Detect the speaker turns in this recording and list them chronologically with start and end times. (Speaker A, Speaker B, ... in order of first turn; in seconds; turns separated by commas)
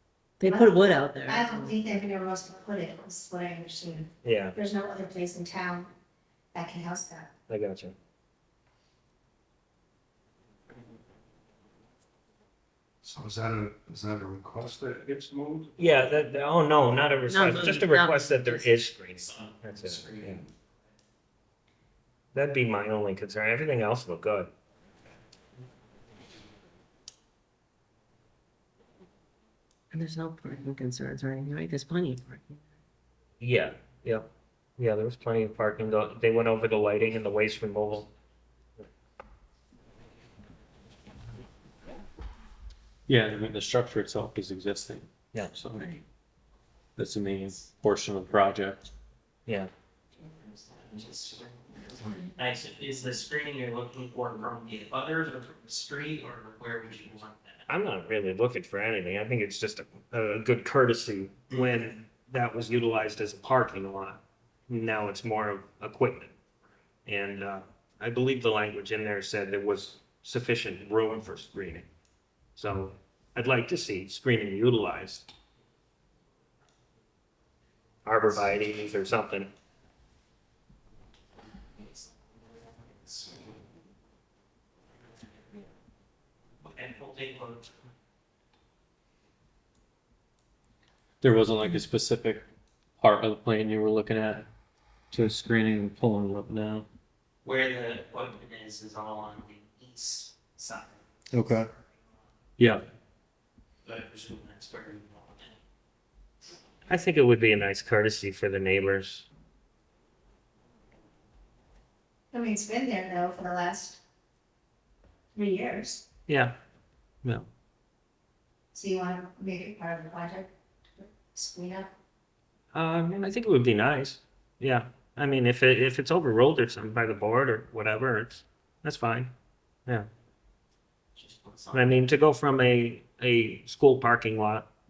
Speaker A: 0.4-1.8, Speaker B: 0.5-5.9, Speaker C: 4.2-4.6, Speaker B: 6.5-7.3, Speaker C: 7.5-8.0, Speaker D: 13.0-15.7, Speaker C: 15.8-20.4, Speaker A: 17.3-18.7, Speaker C: 22.3-24.5, Speaker A: 29.9-32.6, Speaker C: 33.4-38.1, Speaker E: 43.1-45.9, Speaker E: 47.0-48.8, Speaker F: 50.7-57.6, Speaker C: 57.7-66.3, Speaker C: 67.1-71.9, Speaker C: 72.6-75.3, Speaker C: 78.0-79.5, Speaker F: 86.6-87.7, Speaker E: 91.2-92.5, Speaker E: 93.0-94.5, Speaker E: 95.1-96.8, Speaker F: 97.4-101.7, Speaker E: 102.6-102.8, Speaker F: 103.8-105.6, Speaker C: 106.9-109.3, Speaker B: 112.3-114.0, Speaker B: 115.3-116.0, Speaker C: 116.3-116.5, Speaker B: 118.7-121.9, Speaker C: 122.7-129.3, Speaker F: 131.4-131.7, Speaker C: 131.7-134.7